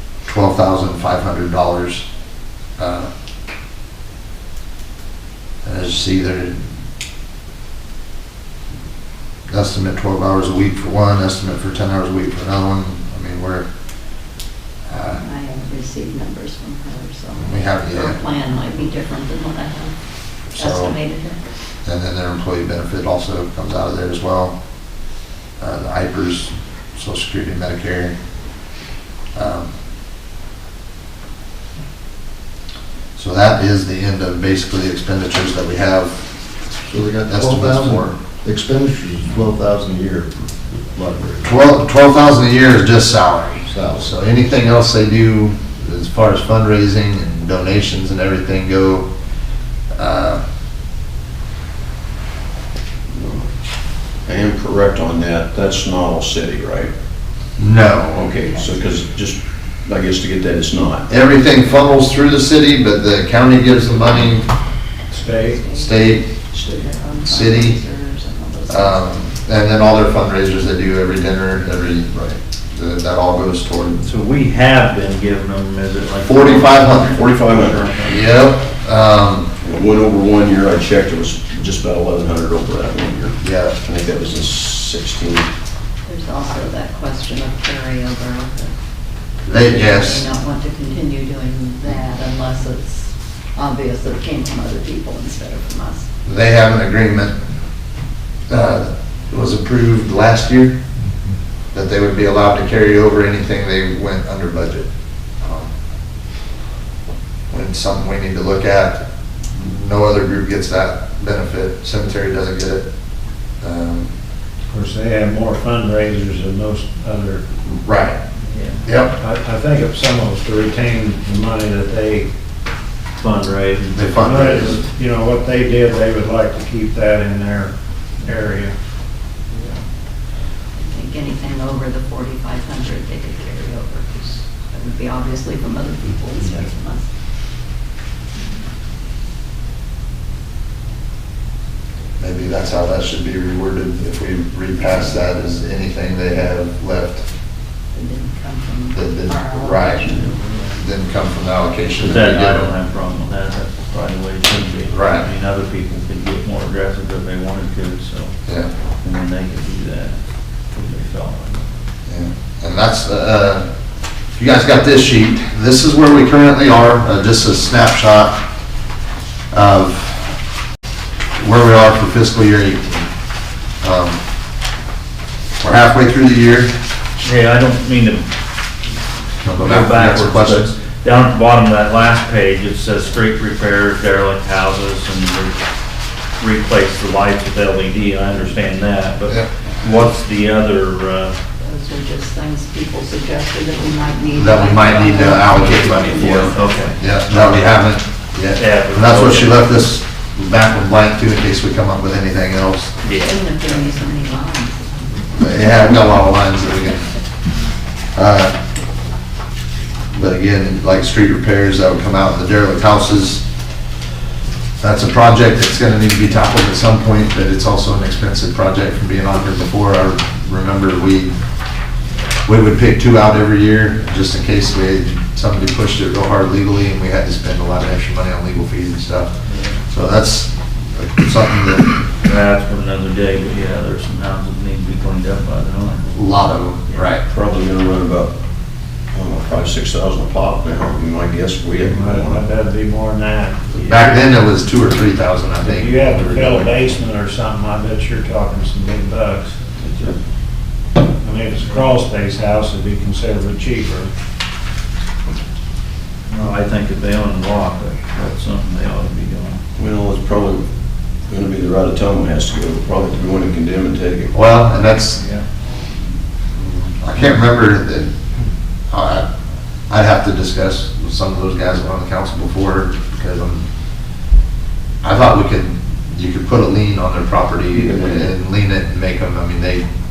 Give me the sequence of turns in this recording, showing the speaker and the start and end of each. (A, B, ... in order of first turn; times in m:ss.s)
0:00.2-0:02.1 A
0:02.8-0:03.1 A
0:05.6-0:06.6 A
0:09.5-0:13.7 A
0:14.9-0:15.2 A
0:15.1-0:20.0 B
0:17.4-0:18.2 A
0:20.5-0:21.4 B
0:20.6-0:21.0 A
0:21.8-0:24.6 A
0:25.6-0:28.2 A
0:29.3-0:29.7 A
0:33.2-0:36.2 A
0:36.9-0:41.6 C
0:37.2-0:38.1 A
0:41.4-0:49.1 A
0:43.7-0:44.0 C
0:50.0-0:50.4 A
0:53.1-0:53.5 D
0:54.2-0:56.9 D
0:57.6-0:58.3 A
0:58.1-1:01.0 D
1:01.1-1:04.5 A
1:05.1-1:05.6 E
1:05.2-1:09.0 B
1:05.7-1:06.3 A
1:07.3-1:07.8 A
1:08.7-1:14.1 A
1:14.0-1:18.2 F
1:16.2-1:17.2 A
1:16.9-1:18.1 D
1:18.0-1:19.5 A
1:19.6-1:25.5 D
1:23.4-1:23.8 A
1:26.0-1:28.7 B
1:29.5-1:30.2 A
1:29.5-1:36.1 B
1:36.2-1:37.4 A
1:38.5-1:40.8 A
1:41.7-1:44.9 A
1:45.4-1:45.7 A
1:47.5-1:49.0 A
1:49.6-1:52.8 A
1:53.6-1:54.1 A
1:54.7-1:57.4 E
1:57.7-1:58.2 A
1:58.5-1:58.8 F
1:58.8-1:59.1 A
1:59.2-2:02.3 E
2:03.2-2:04.1 F
2:03.9-2:04.8 A
2:04.1-2:08.7 E
2:10.8-2:17.1 B
2:22.2-2:27.2 A
2:27.9-2:30.4 B
2:28.9-2:32.7 A
2:32.0-2:38.3 F
2:34.9-2:35.3 A
2:39.0-2:40.2 F
2:40.7-2:41.6 F
2:42.1-2:43.7 A
2:44.4-2:48.4 A
2:49.5-2:50.3 A
2:51.4-2:53.1 A
2:53.8-2:54.2 A
2:55.6-2:56.7 A
2:57.2-2:58.2 F
2:59.4-3:00.7 A
2:59.6-3:05.6 F
3:06.4-3:11.4 F
3:11.6-3:16.7 B
3:14.3-3:22.9 A
3:15.9-3:17.7 F
3:18.6-3:19.6 F
3:23.0-3:23.3 F
3:23.2-3:25.3 B
3:25.3-3:27.1 A
3:28.1-3:28.6 A
3:30.1-3:33.4 A
3:34.8-3:41.3 A
3:42.4-3:49.3 A
3:49.9-3:51.9 A
3:52.2-3:56.1 F
3:56.1-3:57.2 A
3:57.3-3:58.3 D
3:59.1-4:02.4 D
4:01.8-4:03.7 E
4:03.8-4:06.6 A
4:05.6-4:09.7 E
4:09.8-4:10.2 D
4:11.2-4:14.1 E
4:16.3-4:19.6 F
4:19.8-4:20.6 D
4:21.3-4:24.3 D
4:24.3-4:25.2 A
4:26.6-4:28.1 A
4:28.9-4:29.2 A
4:29.9-4:33.7 A
4:35.0-4:39.8 A
4:37.7-4:38.3 D